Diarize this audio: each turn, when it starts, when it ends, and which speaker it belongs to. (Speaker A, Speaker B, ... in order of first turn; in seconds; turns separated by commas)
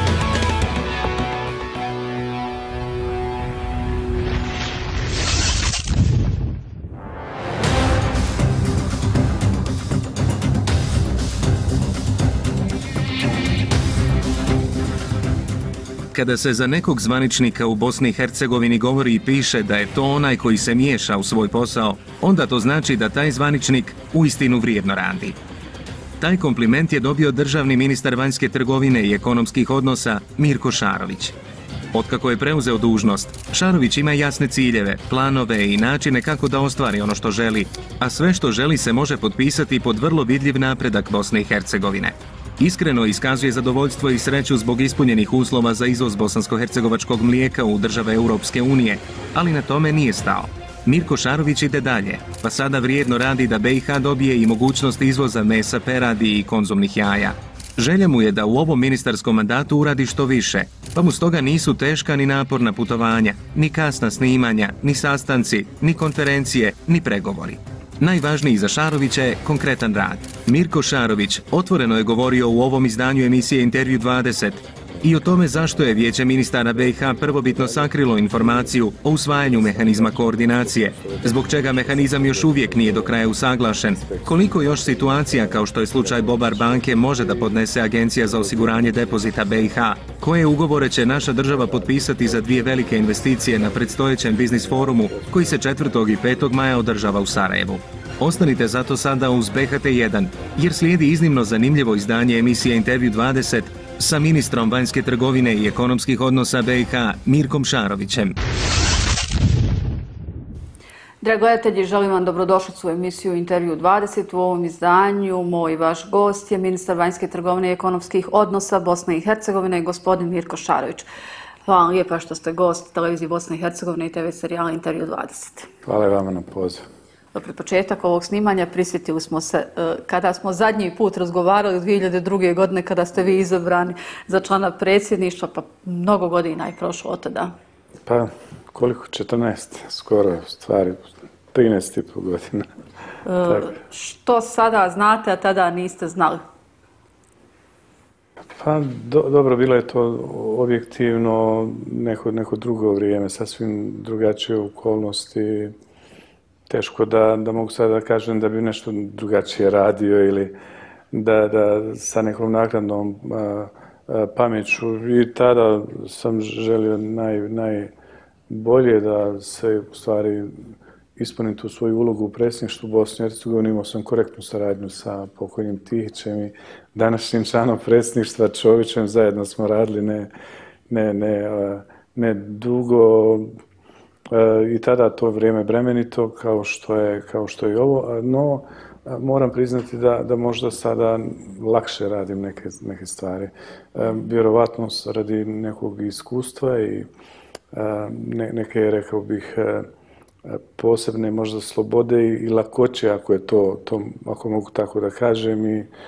Speaker A: 16.1-25.4, Speaker A: 26.2-31.3, Speaker A: 31.9-108.4, Speaker B: 74.9-89.8, Speaker B: 91.1-96.4, Speaker C: 111.2-121.1, Speaker C: 121.6-125.7, Speaker B: 125.8-126.8, Speaker C: 127.3-137.5, Speaker B: 138.1-142.7, Speaker C: 143.2-146.4, Speaker B: 143.4-143.7, Speaker B: 148.5-155.7, Speaker B: 156.7-160.5, Speaker B: 161.1-167.9, Speaker B: 168.5-170.6, Speaker B: 171.2-180.3, Speaker B: 180.9-183.5, Speaker B: 184.3-197.1, Speaker B: 197.7-199.9, Speaker B: 200.4-205.9